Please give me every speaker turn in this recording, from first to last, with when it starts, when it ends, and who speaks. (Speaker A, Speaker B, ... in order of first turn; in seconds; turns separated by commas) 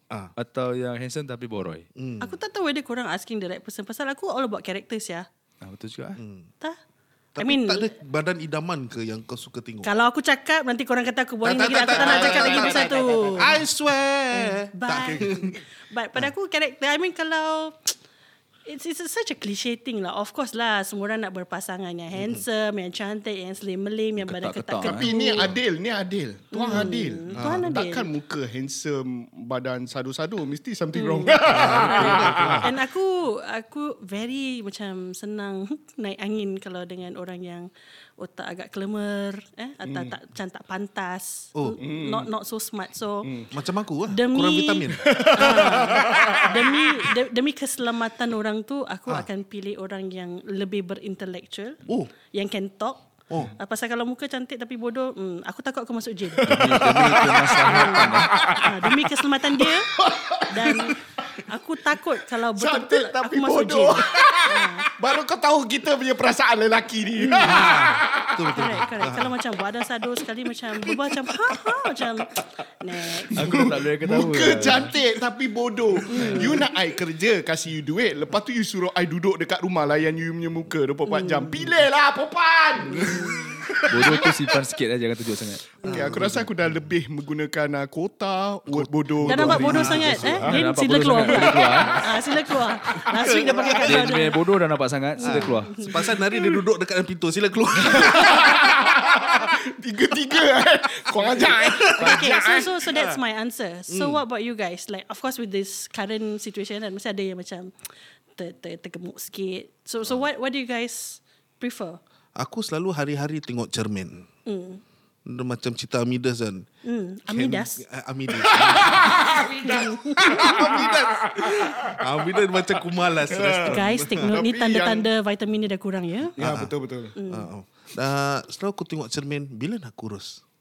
Speaker A: 0.4-1.9, Speaker B: 2.0-2.4, Speaker C: 2.2-5.3, Speaker A: 5.6-6.2, Speaker B: 6.2-6.5, Speaker B: 7.4-9.9, Speaker C: 7.4-7.9, Speaker C: 9.8-13.6, Speaker B: 11.4-15.6, Speaker D: 11.8-13.6, Speaker C: 14.3-17.9, Speaker D: 15.0-15.4, Speaker C: 18.7-25.4, Speaker B: 22.2-22.4, Speaker A: 24.2-25.1, Speaker D: 24.8-32.7, Speaker C: 26.5-28.1, Speaker B: 26.7-27.7, Speaker C: 30.9-43.3, Speaker B: 31.5-32.7, Speaker D: 39.8-40.1, Speaker D: 41.8-42.3, Speaker D: 43.2-43.5, Speaker B: 43.5-45.5, Speaker C: 44.1-51.8, Speaker D: 45.0-47.1, Speaker B: 51.9-52.1, Speaker C: 52.3-56.8, Speaker D: 56.3-59.0, Speaker A: 56.5-58.4, Speaker C: 57.6-59.9, Speaker D: 59.6-61.0, Speaker C: 60.5-64.9, Speaker D: 62.5-68.5, Speaker C: 67.2-67.8, Speaker B: 67.4-69.3, Speaker C: 68.5-73.7, Speaker B: 70.8-71.6, Speaker D: 73.2-84.6, Speaker A: 73.4-74.9, Speaker C: 76.1-76.6, Speaker C: 81.1-81.8, Speaker C: 82.8-83.6, Speaker A: 83.9-85.8, Speaker D: 85.8-90.6, Speaker B: 85.8-86.8, Speaker B: 88.7-90.5, Speaker C: 89.3-94.4, Speaker A: 90.4-92.0, Speaker D: 91.3-91.9, Speaker B: 92.9-94.1, Speaker D: 93.1-93.8, Speaker A: 93.8-95.9, Speaker C: 95.2-96.6, Speaker B: 95.2-98.6, Speaker D: 97.8-102.8, Speaker C: 98.0-98.3, Speaker B: 101.2-102.2, Speaker C: 101.9-107.7, Speaker B: 102.9-103.2, Speaker B: 103.9-104.2, Speaker C: 108.4-112.0, Speaker B: 112.4-114.3, Speaker C: 114.5-114.8, Speaker B: 115.3-116.7, Speaker C: 116.8-117.8, Speaker B: 117.3-124.4, Speaker D: 118.3-125.1, Speaker C: 119.6-120.6, Speaker C: 123.6-126.4, Speaker D: 126.4-127.2, Speaker B: 126.4-126.7, Speaker C: 127.2-127.5, Speaker B: 127.3-130.4